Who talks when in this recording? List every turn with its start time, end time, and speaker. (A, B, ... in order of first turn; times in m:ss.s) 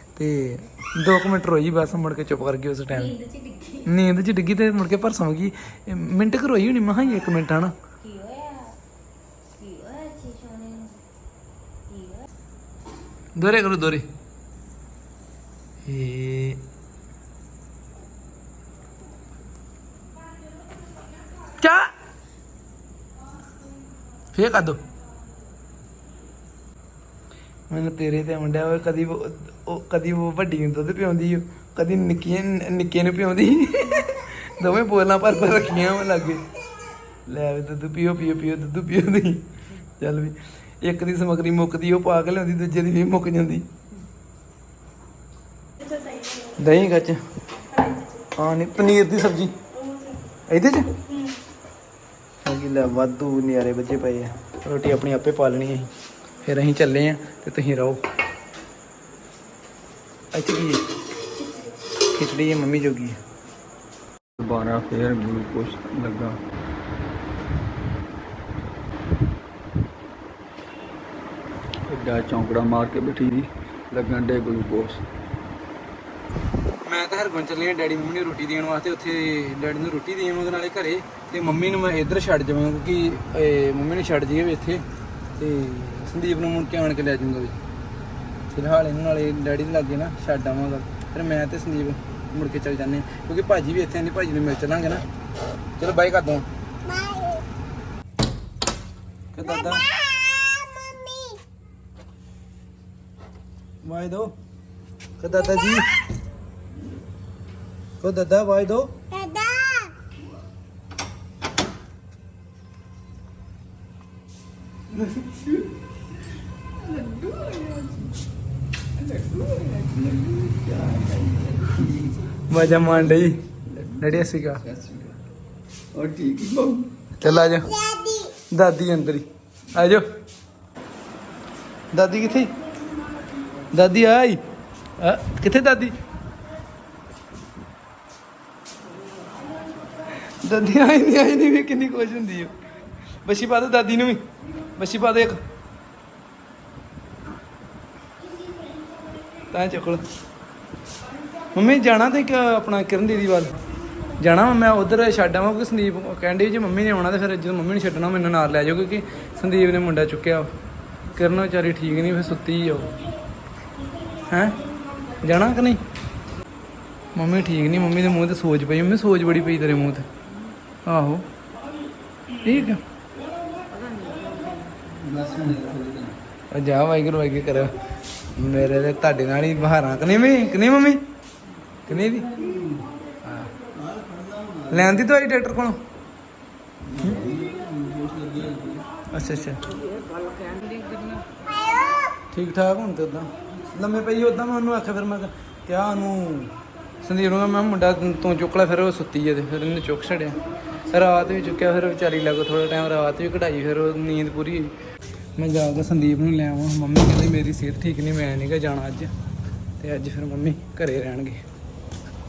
0:00.2-0:03.1 A
0:02.9-0:03.9 B
0:03.8-0:07.7 A
0:08.0-0:08.8 B
0:09.5-0:11.0 B
0:11.9-0:12.3 B
0:13.4-0:14.1 A
0:15.8-0:16.6 A
0:21.5-0:21.9 A
0:24.3-0:24.8 A
0:27.7-0:36.4 A
0:37.2-0:39.4 A
0:40.0-0:43.6 A
0:46.3-0:47.2 A
0:48.4-0:49.5 A
0:50.5-0:50.9 A
0:52.4-0:55.9 A
0:56.4-0:58.0 A
1:00.3-1:00.8 A
1:02.1-1:03.2 A
1:04.4-1:06.4 C
1:11.9-1:15.0 C
1:16.8-1:24.8 A
1:25.4-1:27.6 A
1:28.5-1:35.0 A
1:35.8-1:36.5 A
1:39.3-1:39.8 A
1:43.8-1:44.3 A
1:45.2-1:45.9 A
1:48.0-1:48.9 A
1:56.8-1:58.1 C
1:59.0-2:02.4 C
2:02.5-2:03.4 A
2:03.7-2:05.2 C
2:04.0-2:04.6 A
2:05.9-2:06.9 C
2:07.2-2:07.7 A
2:08.5-2:10.0 A
2:11.9-2:12.5 A
2:13.7-2:14.4 A
2:15.0-2:15.9 A
2:20.2-2:22.5 A
2:23.2-2:24.2 A
2:24.8-2:25.4 A
2:29.5-2:30.0 A
2:31.5-2:33.6 A
2:34.2-2:40.5 A
2:41.1-2:42.9 A
2:44.3-2:44.6 A
2:45.2-2:45.8 A
2:47.1-2:50.1 A
2:50.8-2:51.2 A
2:52.4-2:52.8 A
2:53.7-2:54.8 B
2:54.9-2:56.2 C
2:56.5-2:57.8 A
2:58.3-3:01.0 A
3:01.9-3:02.3 A
3:02.3-3:02.8 C
3:03.2-3:03.5 A
3:03.8-3:04.9 C
3:04.7-3:05.8 A
3:06.8-3:08.8 C
3:09.1-3:09.6 A
3:10.2-3:11.3 B
3:12.3-3:24.7 A
3:25.4-3:29.1 A
3:29.8-3:31.4 A